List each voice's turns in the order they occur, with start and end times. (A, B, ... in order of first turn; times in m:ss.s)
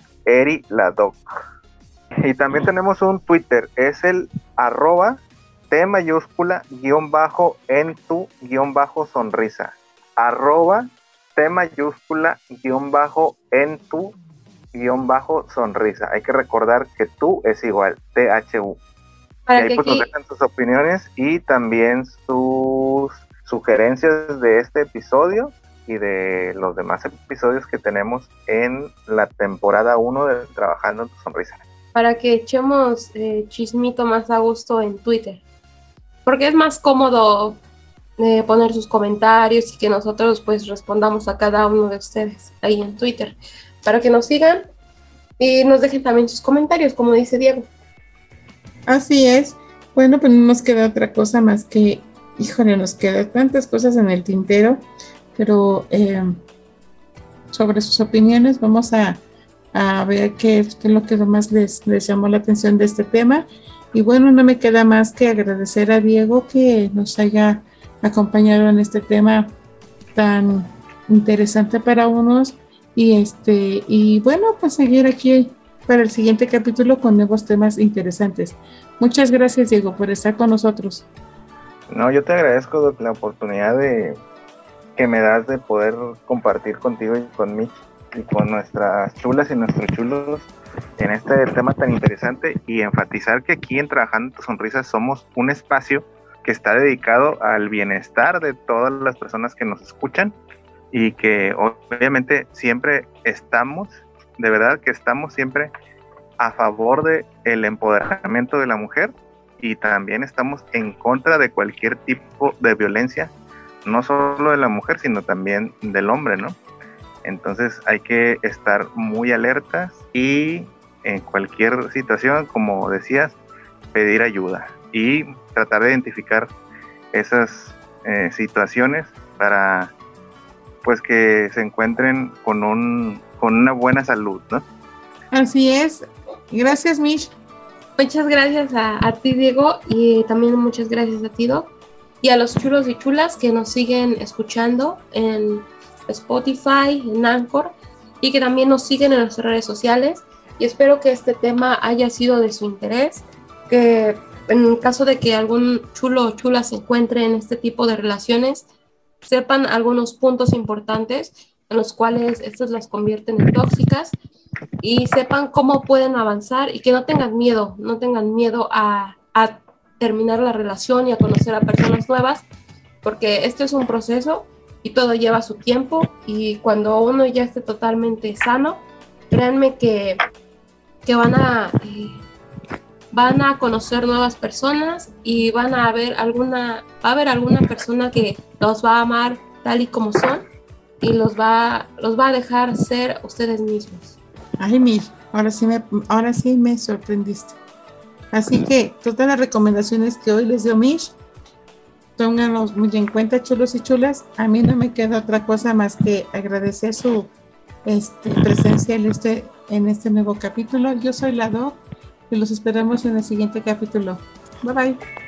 0:00.3-0:01.2 A
0:02.2-0:05.2 A
0:05.7-0:14.2 A
0:14.7-0:18.8 A
0:19.5-0:20.1 B
0:19.6-0:31.6 A
0:32.0-0:35.4 B
0:36.3-0:37.6 B
0:38.2-0:44.7 B
0:45.4-0:47.7 B
0:48.9-0:54.8 C
0:55.4-0:56.4 C
0:57.5-0:59.2 C
0:59.7-1:09.5 C
1:10.2-1:21.1 C
1:21.9-1:24.2 A
1:25.0-1:40.4 A
1:40.9-1:45.7 A
1:46.4-1:53.3 A
1:53.8-1:56.6 A
1:57.2-2:03.4 A
2:03.9-2:06.5 A
2:07.1-2:09.9 A
2:10.8-2:14.6 A
2:15.3-2:17.3 C
2:18.0-2:21.7 B
2:22.2-2:38.7 B
2:39.2-2:44.2 B
2:44.8-2:52.5 B
2:53.0-3:00.2 B
3:01.1-3:02.3 B
3:03.1-3:10.4 B
3:11.0-3:14.2 B
3:14.6-3:17.6 C
3:18.3-3:21.2 C
3:22.2-3:27.3 C
3:27.8-3:35.0 C